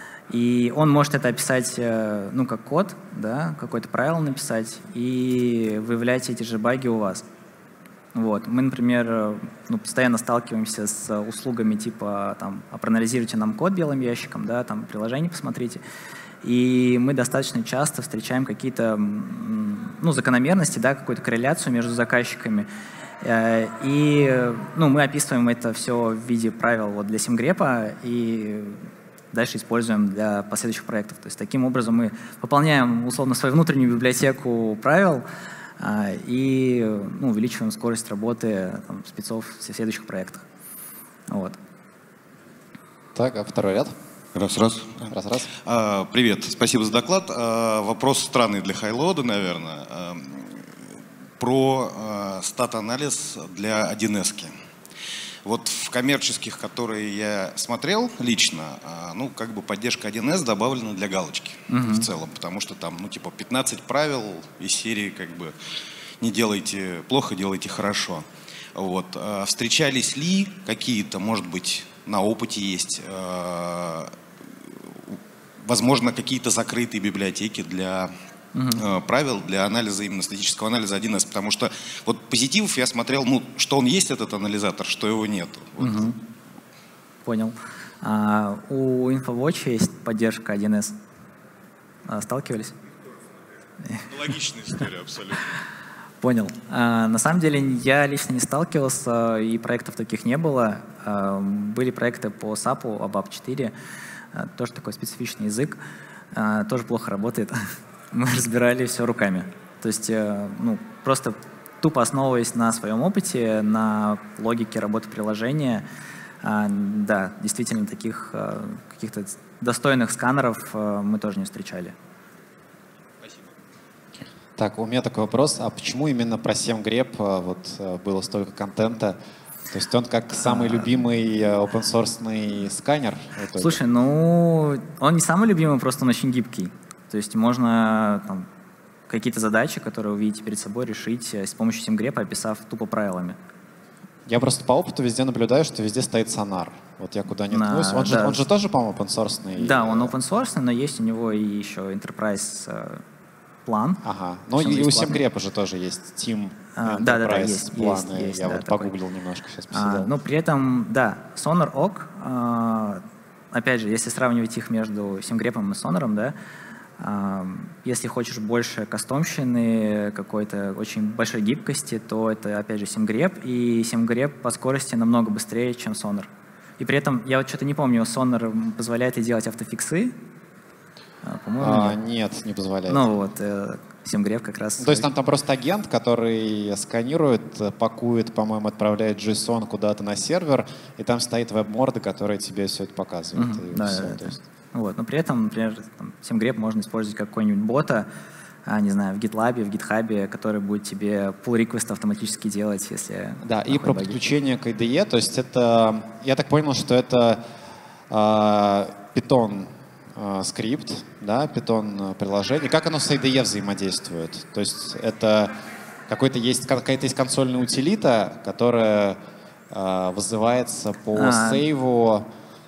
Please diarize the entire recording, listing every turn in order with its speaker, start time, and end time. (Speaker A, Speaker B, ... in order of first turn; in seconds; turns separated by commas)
Speaker A: 0.3-7.2, Speaker A: 8.1-15.8, Speaker A: 16.4-22.7, Speaker A: 23.2-28.8, Speaker A: 29.3-35.2, Speaker A: 35.8-40.4, Speaker A: 41.3-41.6, Speaker B: 43.1-43.9, Speaker C: 44.3-45.1, Speaker B: 45.1-45.5, Speaker C: 45.6-50.7, Speaker C: 51.4-54.5, Speaker C: 55.4-65.5, Speaker A: 61.7-62.0, Speaker C: 66.2-74.1, Speaker C: 75.1-78.1, Speaker A: 78.5-78.8, Speaker C: 78.7-86.1, Speaker A: 85.8-86.2, Speaker A: 87.2-91.0, Speaker A: 92.1-92.7, Speaker C: 94.0-95.5, Speaker A: 96.2-103.7, Speaker A: 104.3-105.8, Speaker A: 106.3-115.8, Speaker A: 116.4-121.9, Speaker B: 124.6-129.2, Speaker B: 129.7-133.8, Speaker A: 130.4-130.8, Speaker A: 133.6-138.5, Speaker A: 139.1-143.4, Speaker B: 144.3-150.1, Speaker A: 147.5-148.4, Speaker A: 149.6-153.0, Speaker A: 153.7-154.0, Speaker B: 154.0-160.1, Speaker A: 154.6-155.2, Speaker A: 156.8-158.9, Speaker A: 159.7-166.3, Speaker A: 167.0-180.1, Speaker A: 181.2-182.0, Speaker B: 181.6-183.0, Speaker A: 182.9-185.1, Speaker B: 184.8-194.4, Speaker A: 193.3-198.1, Speaker A: 198.7-204.2, Speaker B: 203.4-207.4, Speaker B: 208.1-215.6, Speaker B: 216.1-219.2, Speaker B: 219.7-222.3, Speaker A: 221.2-221.7